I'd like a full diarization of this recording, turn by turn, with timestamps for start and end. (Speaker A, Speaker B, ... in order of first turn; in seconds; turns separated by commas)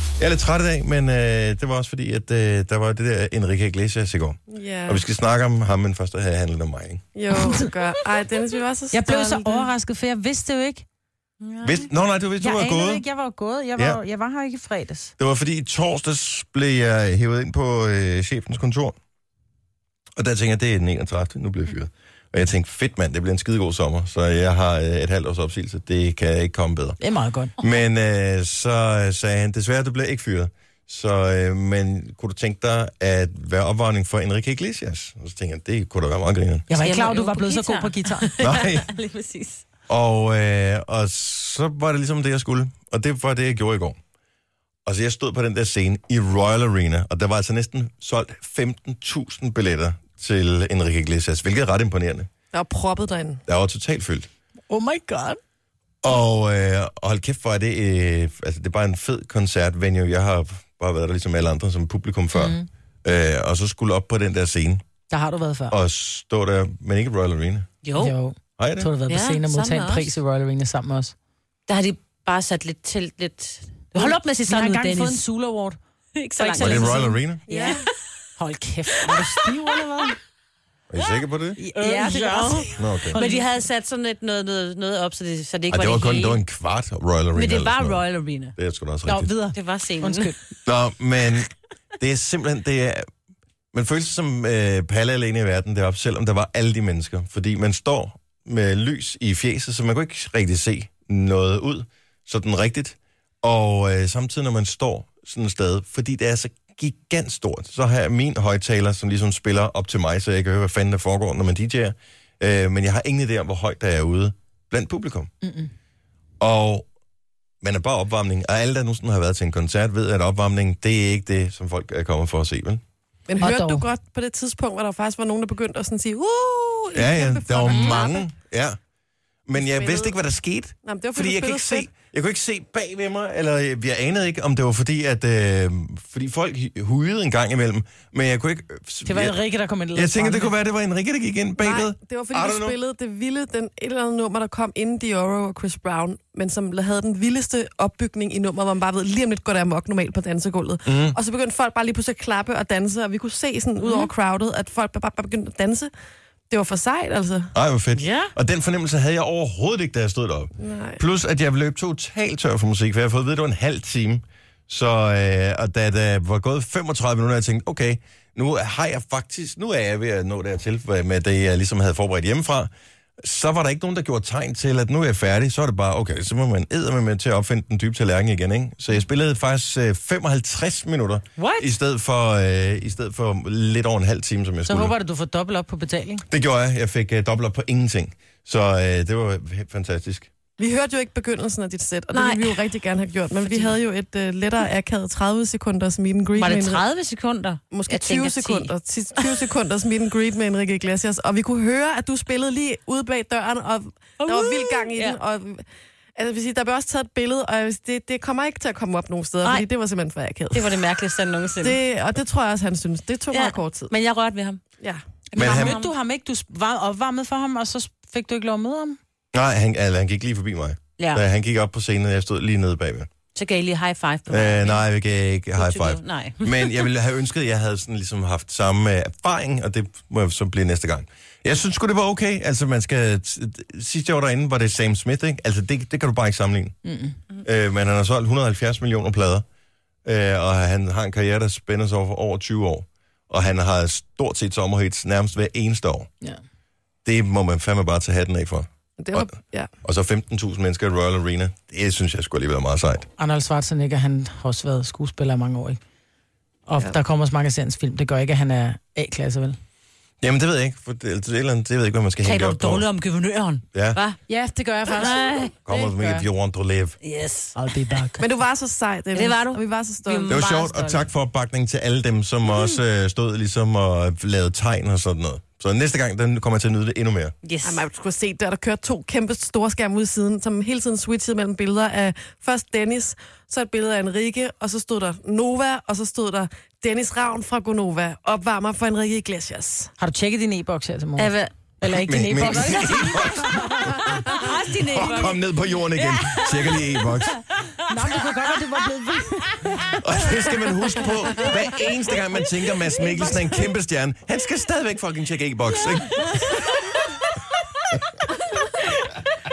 Speaker A: 0.2-7.0, Speaker B: 4.5-5.0, Speaker B: 7.2-9.7, Speaker C: 7.4-8.1, Speaker C: 8.9-10.8, Speaker D: 11.4-11.9, Speaker A: 11.6-13.1, Speaker C: 12.4-15.1, Speaker A: 15.2-18.9, Speaker A: 20.2-27.0, Speaker C: 27.0-27.5, Speaker A: 27.6-36.7, Speaker C: 36.7-38.3, Speaker D: 36.8-39.6, Speaker A: 38.4-38.9, Speaker A: 39.9-44.0, Speaker A: 44.9-52.3, Speaker B: 52.5-53.4, Speaker A: 53.5-54.3, Speaker C: 54.7-55.4, Speaker A: 56.0-64.8, Speaker C: 62.3-62.7, Speaker C: 65.1-65.8, Speaker A: 65.7-67.7, Speaker D: 67.8-68.1, Speaker C: 68.0-71.2, Speaker A: 68.6-68.9, Speaker D: 69.1-70.2, Speaker D: 71.7-75.2, Speaker C: 73.9-75.8, Speaker D: 76.2-77.9, Speaker C: 76.4-77.8, Speaker A: 76.6-77.4, Speaker B: 77.5-77.8, Speaker C: 78.4-80.2, Speaker A: 80.9-81.6, Speaker D: 81.6-86.4, Speaker C: 81.7-83.6, Speaker A: 82.8-83.2, Speaker A: 85.7-89.3, Speaker D: 87.3-88.5, Speaker C: 89.1-90.4, Speaker D: 89.3-90.3, Speaker A: 90.7-93.1, Speaker A: 93.7-115.3, Speaker C: 115.4-115.7, Speaker A: 116.4-116.9, Speaker A: 117.6-122.8, Speaker B: 123.3-128.3, Speaker C: 123.4-123.9, Speaker A: 126.9-128.8, Speaker C: 127.6-128.0, Speaker A: 129.5-139.4, Speaker B: 129.5-130.2, Speaker B: 130.8-131.9, Speaker C: 139.1-140.6, Speaker A: 139.9-142.8, Speaker B: 141.6-155.9, Speaker A: 150.9-151.2, Speaker B: 156.5-157.5, Speaker A: 157.5-172.7, Speaker D: 157.9-158.3, Speaker B: 160.6-161.0, Speaker A: 173.2-185.0, Speaker C: 181.4-181.7, Speaker C: 184.7-186.2, Speaker A: 186.3-190.3, Speaker B: 190.6-196.9, Speaker D: 192.1-192.7, Speaker D: 193.4-193.8, Speaker D: 196.3-199.4, Speaker B: 197.7-205.7, Speaker D: 204.2-205.2, Speaker B: 206.2-210.8, Speaker D: 210.5-211.8, Speaker B: 211.6-213.9, Speaker D: 213.3-214.6, Speaker C: 215.3-219.0, Speaker D: 215.3-215.9, Speaker A: 215.4-215.8, Speaker A: 219.3-223.1, Speaker D: 223.3-224.8, Speaker A: 224.3-236.8, Speaker D: 225.6-226.8, Speaker C: 236.8-237.2, Speaker A: 237.4-239.4, Speaker A: 240.1-246.1, Speaker A: 247.1-249.3, Speaker B: 249.0-249.7, Speaker A: 249.8-253.1, Speaker C: 253.2-255.8, Speaker C: 256.7-259.6, Speaker A: 260.2-262.9, Speaker D: 262.2-264.2, Speaker A: 263.7-264.0, Speaker C: 264.3-266.3, Speaker D: 264.9-265.5, Speaker A: 265.7-267.0, Speaker D: 267.0-267.6, Speaker C: 267.6-268.2, Speaker B: 268.2-270.4, Speaker D: 269.1-271.1, Speaker A: 270.3-277.4, Speaker D: 277.4-277.8, Speaker B: 277.6-289.9, Speaker C: 290.0-294.4, Speaker D: 291.2-291.5, Speaker A: 291.8-294.1, Speaker D: 292.3-293.5, Speaker D: 294.1-297.3, Speaker A: 294.9-297.4, Speaker C: 297.9-301.5, Speaker A: 300.0-306.4, Speaker C: 302.1-303.8